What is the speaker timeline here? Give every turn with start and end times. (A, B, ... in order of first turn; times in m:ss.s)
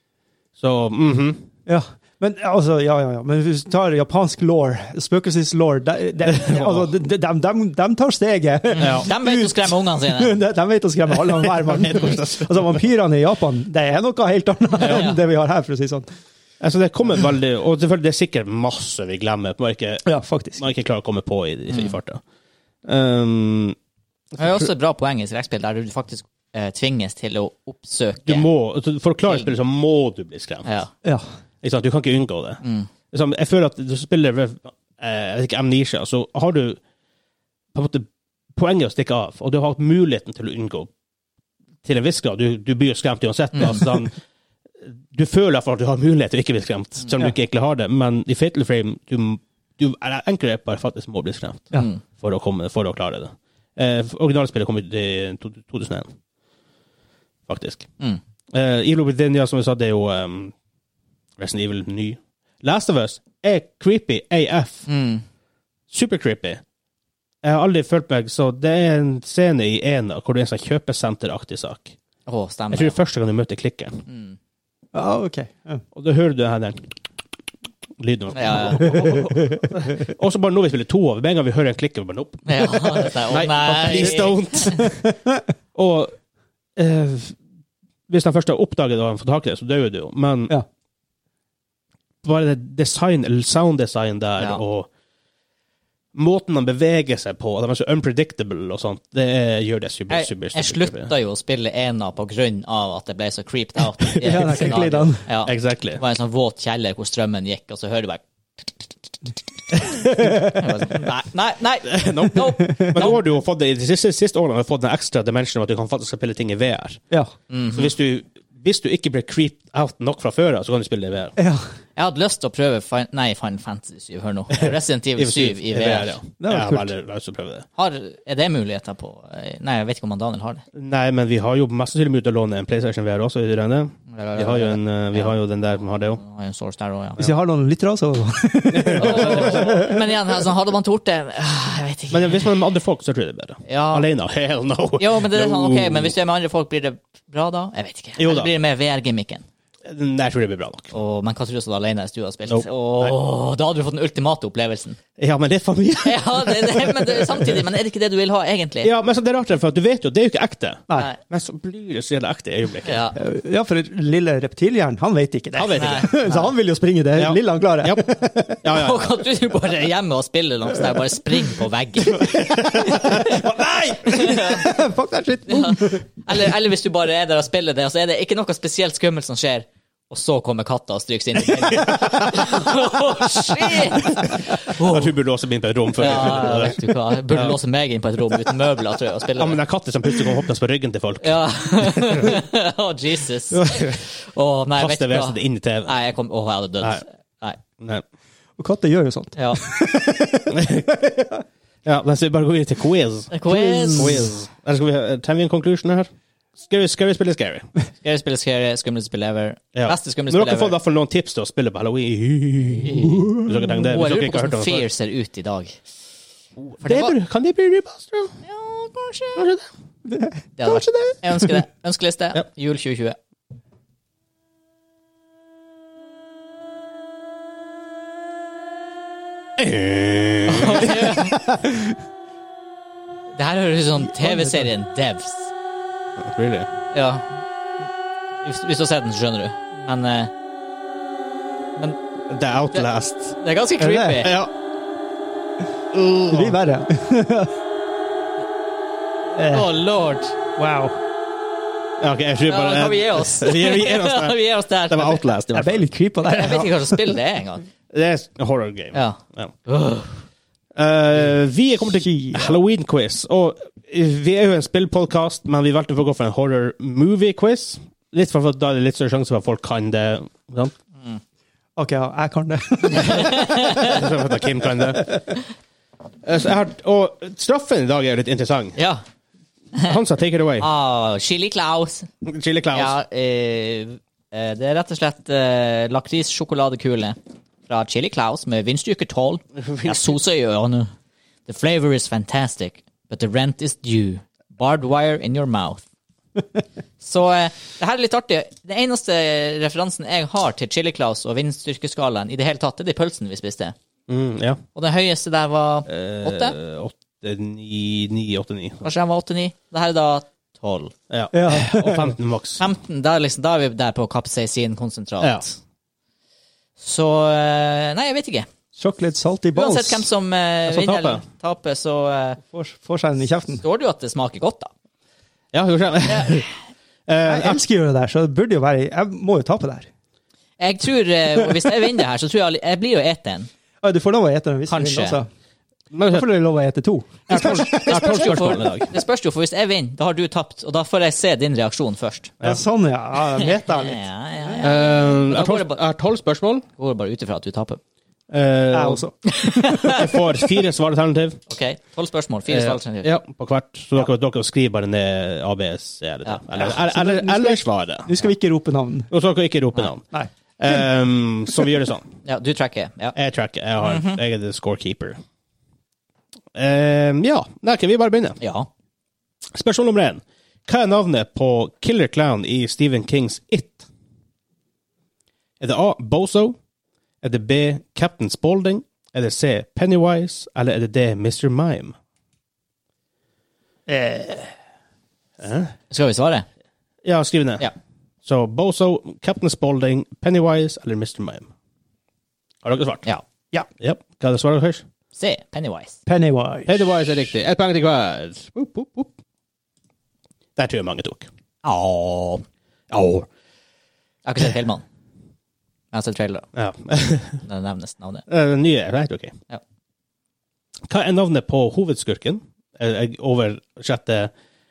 0:00.6-0:01.5 A
0:01.7-0:16.1 B
0:06.2-0:06.9 A
0:08.7-0:10.4 C
0:08.8-0:09.1 A
0:11.7-0:12.8 A
0:14.8-0:15.2 C
0:16.6-0:22.2 A
0:20.0-0:20.6 B
0:21.7-0:22.0 C
0:22.8-0:23.8 A
0:24.4-0:24.7 A
0:24.4-0:28.5 C
0:28.3-0:30.7 A
0:29.3-0:29.5 C
0:30.6-0:30.9 C
0:31.6-0:36.8 A
0:32.6-0:32.9 C
0:37.7-0:40.9 A
0:41.8-0:44.2 A
0:43.6-0:43.9 C
0:44.8-0:56.1 A
0:51.7-0:52.0 C
0:57.5-0:57.9 A
0:58.5-1:00.5 A
1:01.4-1:04.9 A
1:04.9-1:05.2 C
1:05.9-1:06.6 A
1:07.4-1:12.0 A
1:12.3-1:13.0 C
1:12.7-1:14.0 A
1:14.1-1:14.4 C
1:14.9-1:15.8 B
1:15.9-1:16.8 A
1:18.0-1:24.9 A
1:18.3-1:19.2 C
1:18.8-1:19.7 B
1:22.5-1:24.8 C
1:23.9-1:25.4 B
1:25.8-1:26.2 A
1:26.8-1:27.4 A
1:28.1-1:30.6 A
1:32.2-1:34.9 A
1:36.2-1:41.1 A
1:40.1-1:48.8 C
1:44.2-1:45.3 B
1:45.4-1:46.0 A
1:49.8-1:53.2 C
1:50.1-1:51.0 B
1:51.8-1:57.0 A
1:52.6-1:53.0 B
1:57.5-1:57.9 C
1:57.7-2:01.4 A
2:01.4-2:01.7 B
2:02.0-2:06.2 C
2:04.5-2:07.7 A
2:06.4-2:06.9 B
2:07.8-2:10.6 C
2:10.7-2:16.2 A
2:14.1-2:15.3 C
2:16.2-2:17.2 C
2:17.2-2:20.0 B
2:18.7-2:19.9 A
2:19.0-2:22.6 C
2:22.1-2:26.1 A
2:23.7-2:24.1 C
2:25.0-2:29.4 C
2:28.2-2:28.5 A
2:29.8-2:30.9 A
2:30.9-2:35.0 C
2:32.5-2:33.2 A
2:35.2-2:37.6 A
2:36.0-2:38.9 C
2:38.8-2:43.1 A
2:40.9-2:41.2 C
2:42.8-2:43.2 C
2:43.2-2:48.6 B
2:45.5-2:46.1 A
2:45.7-2:46.5 C
2:47.2-2:49.2 A
2:48.7-2:53.5 C
2:52.1-2:56.5 B
2:54.0-2:54.8 C
2:55.5-3:05.1 C
3:01.8-3:02.3 A
3:04.7-3:06.8 A
3:06.0-3:09.6 C
3:07.3-3:07.6 A
3:09.4-3:11.4 A
3:11.2-3:17.6 C
3:13.6-3:14.0 A
3:14.8-3:15.9 A
3:18.6-3:21.4 B
3:19.4-3:19.6 C
3:20.5-3:20.9 A
3:21.8-3:23.4 A
3:23.3-3:24.3 C
3:23.5-3:24.3 B
3:23.9-3:27.7 A
3:28.0-3:30.8 C
3:29.8-3:34.9 A
3:32.9-3:35.8 C
3:36.6-3:38.3 A
3:36.8-3:37.2 C
3:38.4-3:39.5 C
3:39.4-3:39.7 A
3:40.0-3:40.9 B
3:40.6-3:43.2 C
3:49.6-3:51.1 A
3:50.5-3:51.4 C
3:51.4-3:51.9 B
3:53.3-3:55.5 C
3:54.2-3:54.7 B
3:56.2-3:56.7 A
3:56.9-3:57.3 C
3:58.4-4:00.3 C
4:02.3-4:03.4 A
4:03.4-4:04.3 C
4:03.8-4:04.3 B
4:04.2-4:04.5 A
4:05.9-4:06.5 A
4:06.3-4:07.6 B
4:09.4-4:09.8 B
4:09.4-4:10.4 C
4:10.6-4:11.0 B
4:12.0-4:15.8 A
4:12.5-4:15.3 C
4:15.5-4:17.2 B
4:16.2-4:17.7 C
4:17.9-4:19.5 A
4:18.9-4:20.2 C
4:20.8-4:30.7 A
4:22.0-4:22.6 B
4:31.8-4:34.1 B
4:33.0-4:34.0 C
4:33.8-4:35.2 A
4:34.8-4:35.2 B
4:36.2-4:38.8 A
4:38.8-4:39.0 C
4:39.8-4:40.7 A
4:40.6-4:42.1 C
4:42.2-4:43.0 A
4:42.7-4:50.9 C
4:49.6-4:50.2 A
4:51.5-4:55.8 C
4:57.0-5:03.8 C
5:04.1-5:04.6 A
5:04.8-5:06.6 C
5:05.9-5:08.9 A
5:08.8-5:10.9 C
5:11.1-5:12.6 A
5:11.3-5:12.2 B
5:12.6-5:15.6 C
5:16.8-5:18.5 C
5:18.8-5:20.1 B
5:19.6-5:22.4 C
5:20.7-5:21.2 A
5:22.5-5:23.6 B
5:23.6-5:24.7 C
5:25.5-5:26.5 A
5:26.1-5:26.5 C
5:27.1-5:27.6 A
5:27.2-5:29.9 B
5:30.6-5:33.5 C
5:33.8-5:35.3 B
5:34.7-5:35.2 C
5:35.9-5:36.3 A
5:36.1-5:38.6 B
5:37.3-5:38.9 A
5:37.3-5:42.3 C
5:42.4-5:44.6 B
5:43.4-5:45.8 C
5:44.6-5:46.7 A
5:46.8-5:47.8 C
5:48.3-5:49.1 A
5:48.7-5:50.1 B
5:49.3-5:50.0 C
5:49.8-5:51.4 A
5:51.5-5:53.1 C
5:52.5-5:58.1 A
5:56.6-5:59.1 B
5:59.1-6:00.0 A
6:00.1-6:00.8 B
6:00.6-6:02.1 A
6:02.2-6:03.2 C
6:03.2-6:05.2 A
6:03.8-6:04.2 C
6:06.6-6:08.4 A
6:08.4-6:08.7 C
6:09.5-6:13.9 A
6:15.6-6:16.6 A
6:17.2-6:22.0 A
6:23.9-6:24.5 B
6:25.4-6:25.7 A
6:25.9-6:26.5 C
6:27.0-6:27.7 A
6:28.2-6:31.5 A
6:32.6-6:33.1 A
6:33.8-6:34.8 A
6:35.1-6:36.0 C
6:36.1-6:36.9 B
6:36.7-6:39.1 A
6:40.6-6:41.3 A
6:41.6-6:42.4 C
6:42.9-6:43.3 A
6:44.2-6:44.8 C
6:45.9-6:46.5 C
6:46.6-6:47.4 A
6:47.4-6:48.2 C
6:48.3-6:49.4 A
6:50.9-6:54.3 A